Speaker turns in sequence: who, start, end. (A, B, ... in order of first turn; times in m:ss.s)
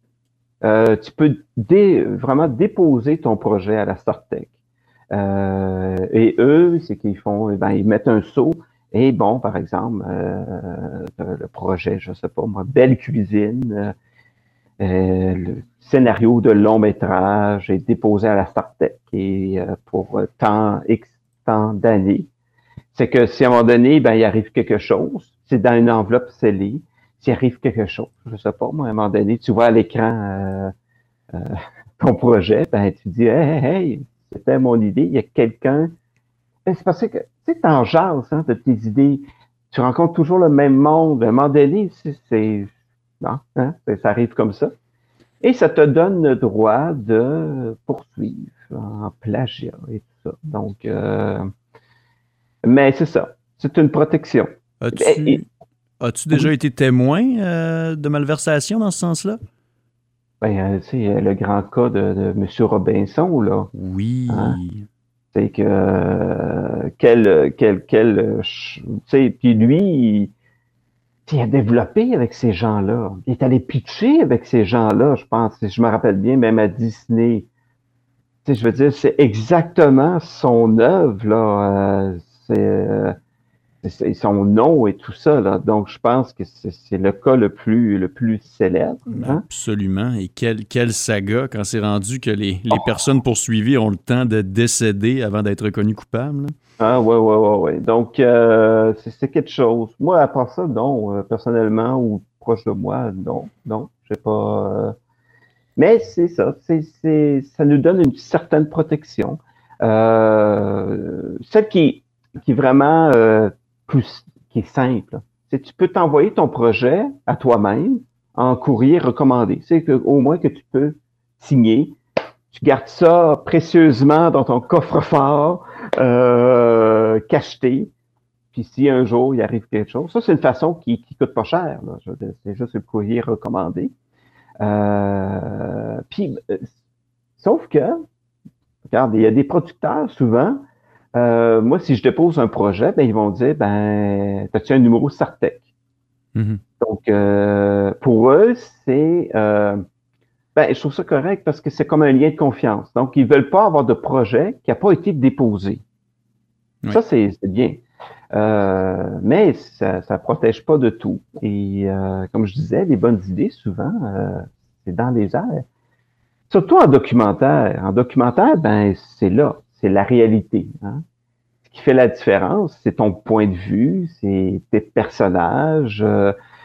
0:00.6-0:04.5 A
0:05.1-0:13.9 A
0:14.8-0:22.3 A
0:22.9-0:30.7 A
0:31.3-0:35.9 A
0:36.6-0:44.7 A
0:45.4-0:51.5 A
0:52.6-0:55.4 A
0:54.8-0:55.4 B
0:56.0-0:59.4 B
1:00.4-1:03.7 A
1:03.7-1:04.8 B
1:04.3-1:04.6 A
1:05.3-1:10.3 A
1:11.3-1:17.5 A
1:18.4-1:23.1 A
1:23.8-1:29.4 A
1:29.1-1:36.5 B
1:36.8-1:44.9 A
1:45.8-2:02.0 A
2:02.5-2:07.9 A
2:08.5-2:13.9 A
2:14.6-2:16.6 A
2:17.4-2:18.0 A
2:18.9-2:20.6 A
2:21.1-2:25.6 A
2:26.3-2:26.6 B
2:26.8-2:29.8 A
2:30.5-2:35.8 A
2:36.9-2:37.8 A
2:38.3-2:45.6 A
2:46.5-2:51.0 A
2:51.6-2:56.3 A